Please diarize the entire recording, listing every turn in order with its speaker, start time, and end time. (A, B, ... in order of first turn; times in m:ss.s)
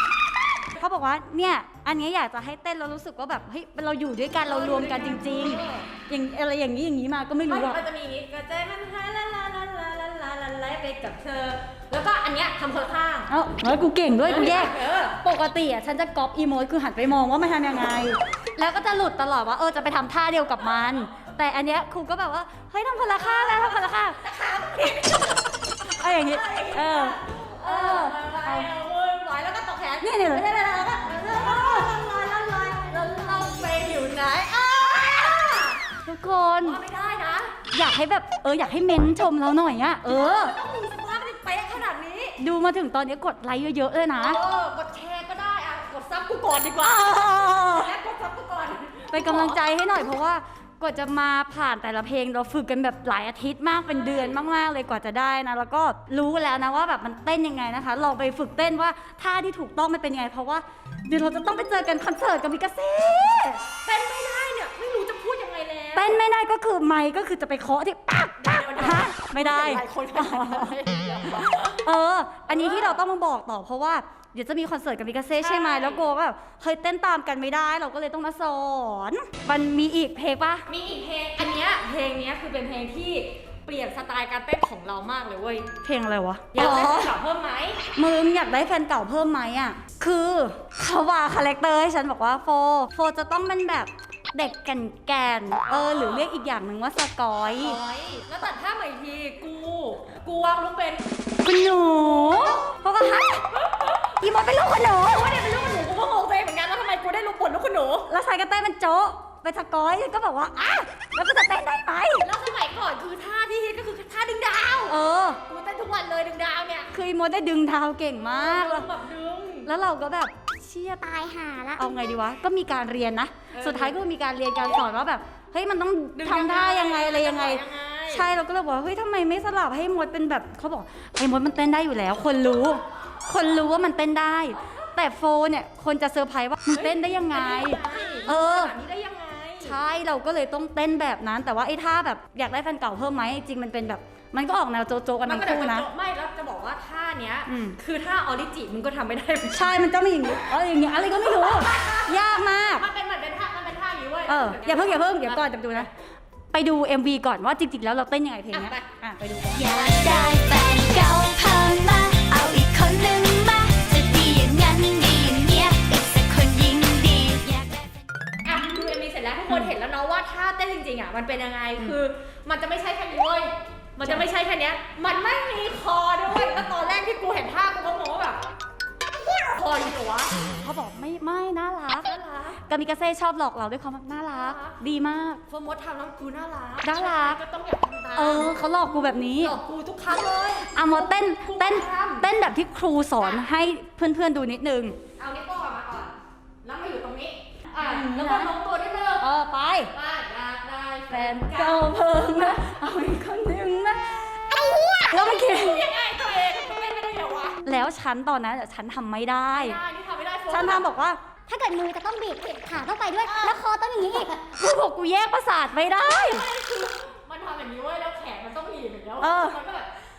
0:00.8-0:07.8 A
0:04.4-0:05.9 B
0:07.5-0:13.3 B
0:13.3-0:24.2 A
0:14.2-0:15.2 B
0:23.4-0:35.8 B
0:24.8-0:25.0 A
0:25.8-0:28.7 A
0:30.0-0:30.5 A
0:31.1-0:31.9 A
0:36.0-0:36.8 A
0:36.6-0:37.6 B
0:37.7-0:40.5 A
0:40.0-0:42.4 B
0:42.4-0:44.4 A
0:44.2-0:49.6 B
0:46.8-0:47.9 A
0:49.1-1:03.6 A
0:53.9-0:54.4 B
1:03.9-1:06.2 B
1:06.0-1:10.8 A
1:08.4-1:11.8 B
1:11.6-1:20.7 A
1:12.5-1:13.0 B
1:15.4-1:16.1 B
1:20.7-1:25.7 B
1:25.8-1:27.2 A
1:26.5-1:27.8 B
1:28.0-1:37.8 A
1:37.4-1:41.1 B
1:41.4-1:43.5 A
1:42.1-1:42.6 B
1:43.6-1:44.1 B
1:44.2-1:45.3 A
1:45.0-1:48.1 B
1:48.1-1:52.3 A
1:52.2-1:56.9 B
1:54.9-1:55.4 A
1:56.9-1:58.9 A
1:58.2-1:59.7 B
1:59.6-2:18.8 A
2:01.0-2:01.8 C
2:03.5-2:04.0 B
2:06.2-2:08.3 B
2:16.7-2:19.8 B
2:19.6-2:25.9 A
2:25.2-2:29.7 B
2:27.5-2:27.8 A
2:29.5-2:32.9 A
2:30.9-2:35.9 B
2:34.3-2:35.9 A
2:36.5-2:40.0 A
2:38.5-2:38.9 B
2:39.6-2:47.9 C
2:48.4-2:58.4 B
2:59.5-3:00.4 B
3:00.5-3:02.1 A
3:02.0-3:02.6 B
3:02.6-3:05.4 A
3:04.3-3:04.8 B
3:05.5-3:08.6 B
3:06.8-3:07.4 A
3:08.2-3:09.6 A
3:09.2-3:12.3 B
3:10.7-3:15.0 A
3:15.2-3:19.2 B
3:17.8-3:18.6 A
3:19.2-3:19.9 A
3:19.9-3:22.6 B
3:21.1-3:25.9 A
3:24.9-3:27.6 B
3:27.6-3:29.8 A
3:29.5-3:30.9 B
3:30.5-3:31.2 A
3:31.5-3:34.4 C
3:33.2-3:33.6 B
3:34.4-3:36.5 A
3:36.0-3:39.9 B
3:39.2-3:39.6 A